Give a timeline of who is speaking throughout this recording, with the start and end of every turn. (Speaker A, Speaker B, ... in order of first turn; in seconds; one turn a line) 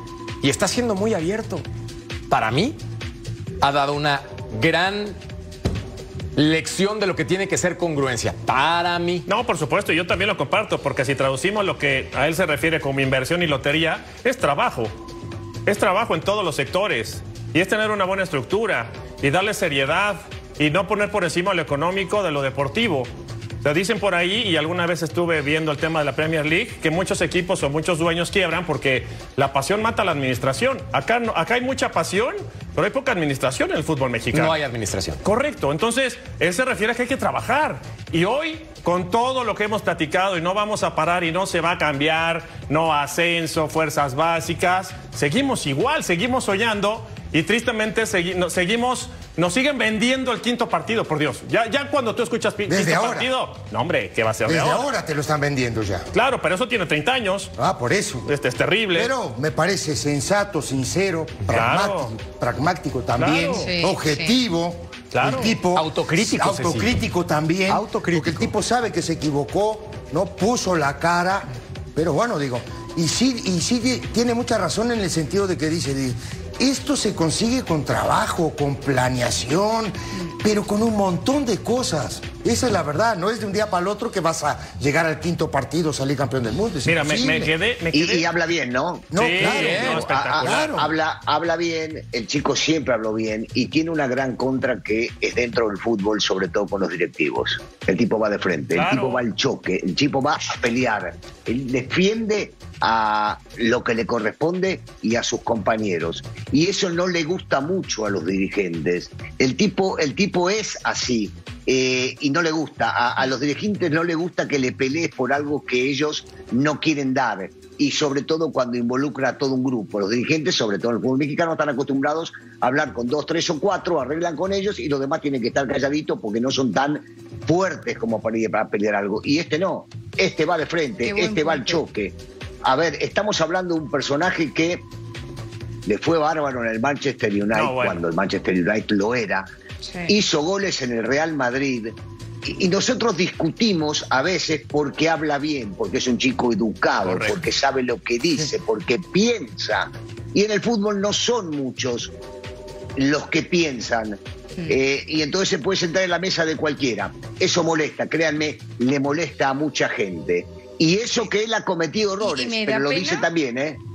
Speaker A: 0.4-1.6
Speaker A: 2.3-2.8
Speaker A: 3.6-5.2
Speaker A: 6.3-9.2
Speaker B: 9.3-14.9
Speaker B: 15.7-23.1
Speaker B: 23.6-34.6
Speaker A: 34.3-35.2
Speaker B: 35.2-54.9
Speaker C: 52.7-53.3
Speaker C: 54.5-56.1
Speaker B: 56.1-57.5
Speaker C: 57.6-58.3
Speaker B: 58.3-59.1
Speaker C: 58.9-87.5
Speaker B: 61.5-62.1
Speaker B: 63.2-63.7
Speaker D: 63.6-64.4
Speaker B: 65.1-65.6
Speaker A: 65.7-66.9
Speaker A: 67.7-68.5
Speaker B: 86.8-88.3
Speaker E: 87.9-89.1
Speaker C: 89.1-90.9
Speaker B: 89.2-90.8
Speaker A: 89.4-90.0
Speaker E: 89.6-134.9
Speaker B: 98.7-99.2
Speaker D: 131.0-131.8
Speaker E: 135.9-139.5
Speaker B: 137.5-138.0
Speaker D: 139.8-140.1
Speaker E: 140.1-152.1
Speaker B: 147.0-147.4
Speaker E: 153.0-163.8
Speaker D: 162.2-163.3